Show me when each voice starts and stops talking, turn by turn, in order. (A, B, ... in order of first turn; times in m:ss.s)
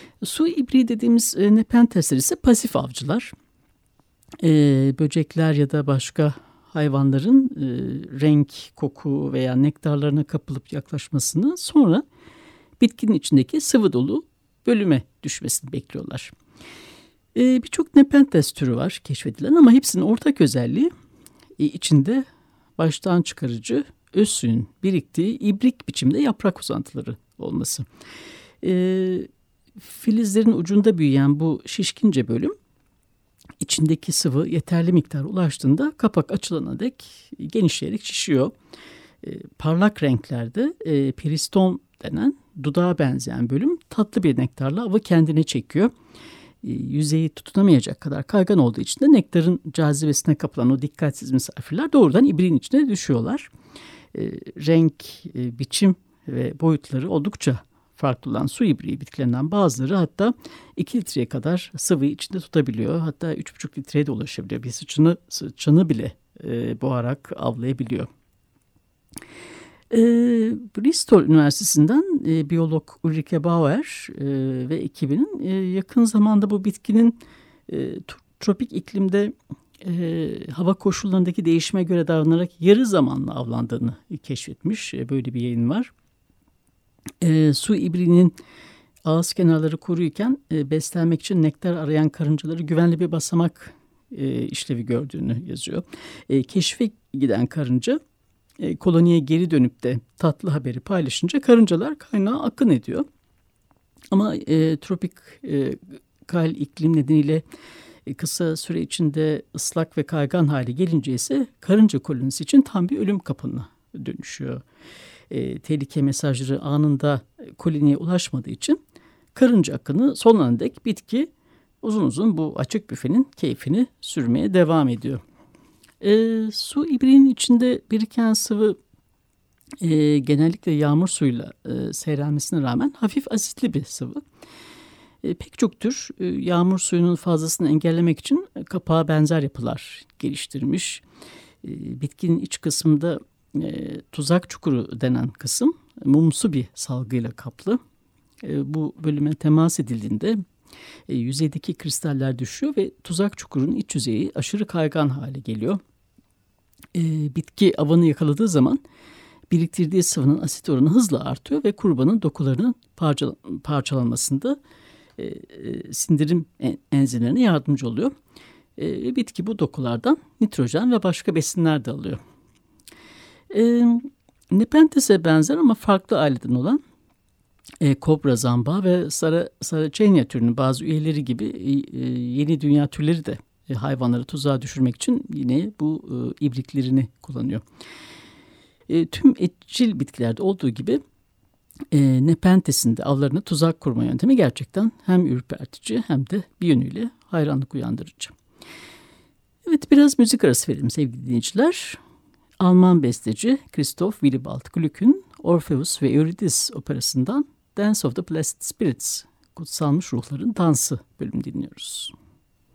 0:00.2-0:03.3 A
0:04.4-0:12.0 A
0:12.8-0:16.3 A
0:17.3-0:20.9 A
0:21.6-0:22.2 A
0:22.8-0:27.8 A
0:28.6-0:32.5 A
0:33.6-0:38.5 A
0:39.2-0:45.9 A
0:46.6-0:53.5 A
0:54.1-1:08.1 A
1:09.9-1:25.9 A
1:27.2-1:28.4 A
1:29.0-1:38.0 A
1:38.6-1:43.0 A
1:44.1-1:47.4 A
1:48.0-1:54.6 A
1:55.3-1:58.8 A
1:59.3-2:01.3 A
2:01.8-2:05.2 A
2:06.0-2:08.8 A
2:09.8-2:14.2 A
2:15.2-2:21.0 A
2:21.6-2:27.8 A
2:28.4-2:30.4 A
2:31.1-2:35.8 A
2:36.9-2:38.8 A
2:39.5-2:44.6 A
2:45.2-2:48.1 A
2:48.8-2:52.2 A
2:53.5-2:56.8 A
2:57.8-3:07.6 A
3:08.9-3:11.0 A
3:11.9-3:18.3 A
3:19.6-3:22.0 A
3:22.6-3:32.1 A